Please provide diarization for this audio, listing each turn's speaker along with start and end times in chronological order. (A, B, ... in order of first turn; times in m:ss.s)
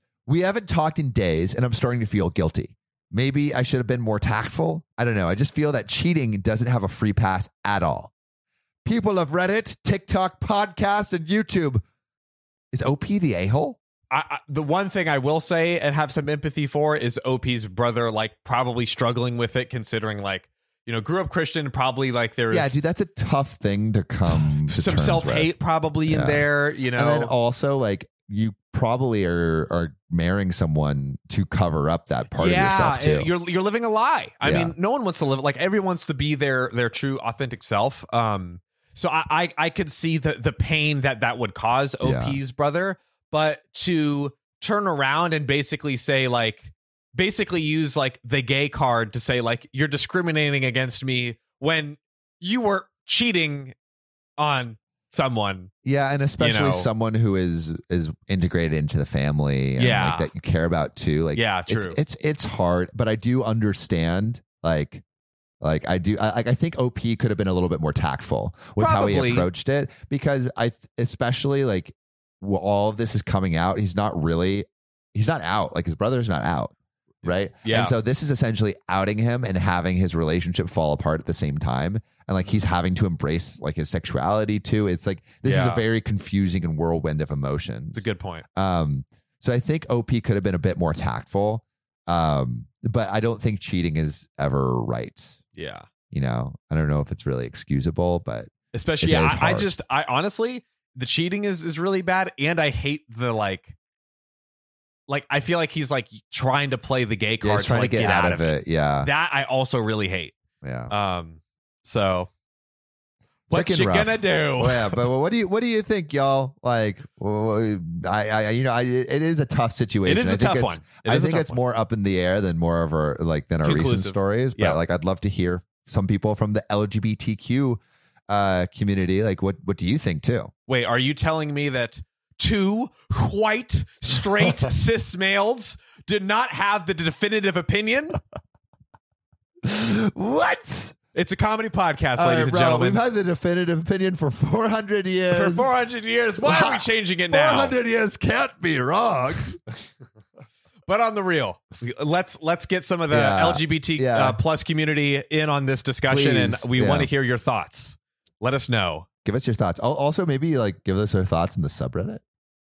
0:00.3-0:08.1 A
0:08.8-0:11.8 A
0:12.7-0:13.8 A
0:14.1-0:22.9 B
0:22.5-0:25.5 A
0:24.3-0:27.3 B
0:26.1-0:33.3 A
0:32.3-0:53.7 B
0:34.4-0:34.7 A
0:42.0-0:42.4 A
0:54.4-0:55.7 B
0:55.8-1:05.0 A
0:56.4-0:56.9 B
0:59.8-1:00.3 B
1:01.3-1:02.0 B
1:05.6-1:35.4 A
1:08.8-1:09.5 B
1:17.6-1:17.9 B
1:25.4-1:25.8 B
1:27.9-1:28.4 B
1:35.6-1:35.9 B
1:36.1-1:39.7 A
1:38.7-1:43.8 B
1:45.1-1:50.4 B
1:47.4-1:49.1 A
1:50.6-1:50.9 A
1:50.9-1:52.3 B
1:53.5-2:10.5 A
1:53.5-1:55.0 B
2:00.0-2:01.6 B
2:03.6-2:04.8 B
2:10.7-2:18.2 B
2:19.6-2:21.0 A
2:21.1-2:23.0 B
2:22.2-2:25.7 A
2:25.3-2:27.8 B
2:26.4-2:29.6 A
2:30.9-2:39.1 B
2:33.1-2:34.4 A
2:36.1-2:37.1 A
2:39.2-2:42.2 A